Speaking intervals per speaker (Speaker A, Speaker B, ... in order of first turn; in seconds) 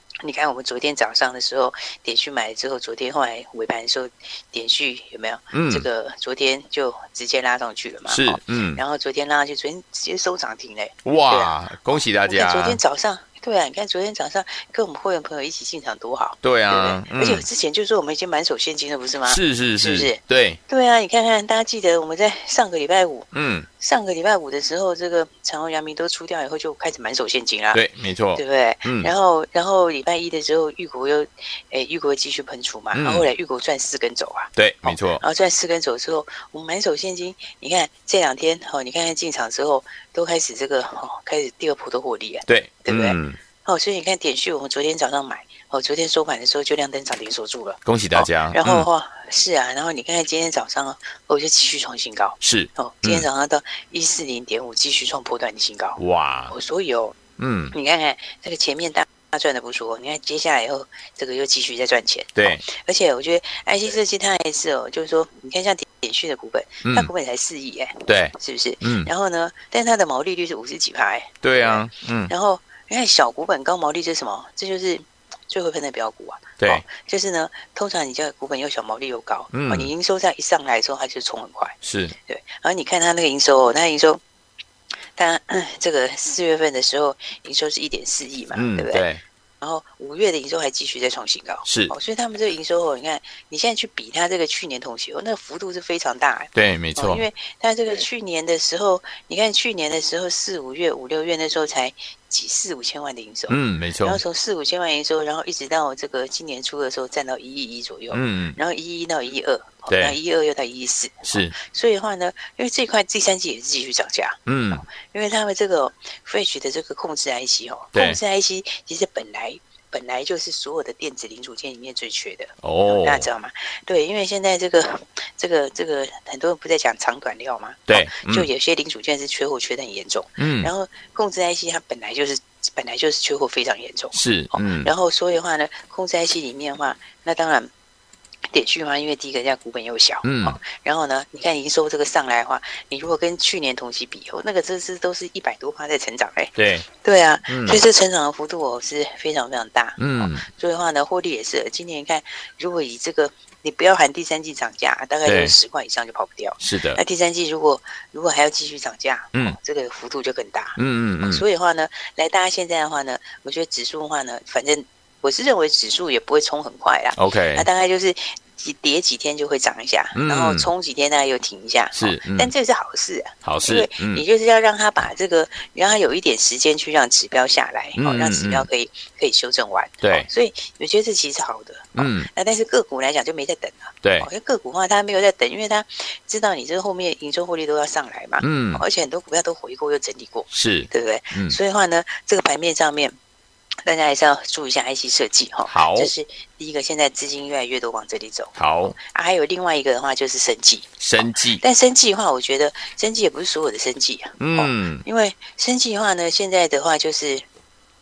Speaker A: 0.2-27.8, 28.4-57.1, 57.7-81.8, 82.3-84.2, 85.2-89.0, 89.6-137.7, 138.5-193.2, 193.8-207.4
Speaker B: 5.5-5.8, 8.1-8.8, 11.0-12.8, 16.4-17.4, 19.3-20.6, 23.3-23.7, 27.7-29.1, 32.9-33.2, 34.5-35.2, 42.5-43.4, 47.9-48.9, 52.4-53.2, 56.0-56.5, 57.4-57.7, 62.4-62.6, 66.8-67.1, 68.1-69.1, 71.4-72.3, 79.5-79.9, 81.8-82.1, 88.5-89.2, 91.7-91.9, 96.5-97.2, 103.5-104.2, 108.1-108.6, 109.9-110.2, 111.3-111.5, 114.5-114.8, 122.6-123.3, 127.9-128.5, 130.4-130.7, 134.1-134.9, 140.2-140.6, 146.6-146.9, 147.5-147.8, 150.0-150.4, 155.2-155.5, 156.6-157.0, 160.8-161.4, 167.2-167.7, 170.2-170.7, 171.9-172.5, 173.4-174.2, 178.0-178.7, 180.0-180.3, 181.9-182.3, 188.4-188.8, 190.5-191.6, 195.7-196.1, 198.6-199.0, 201.0-201.6, 204.4-205.0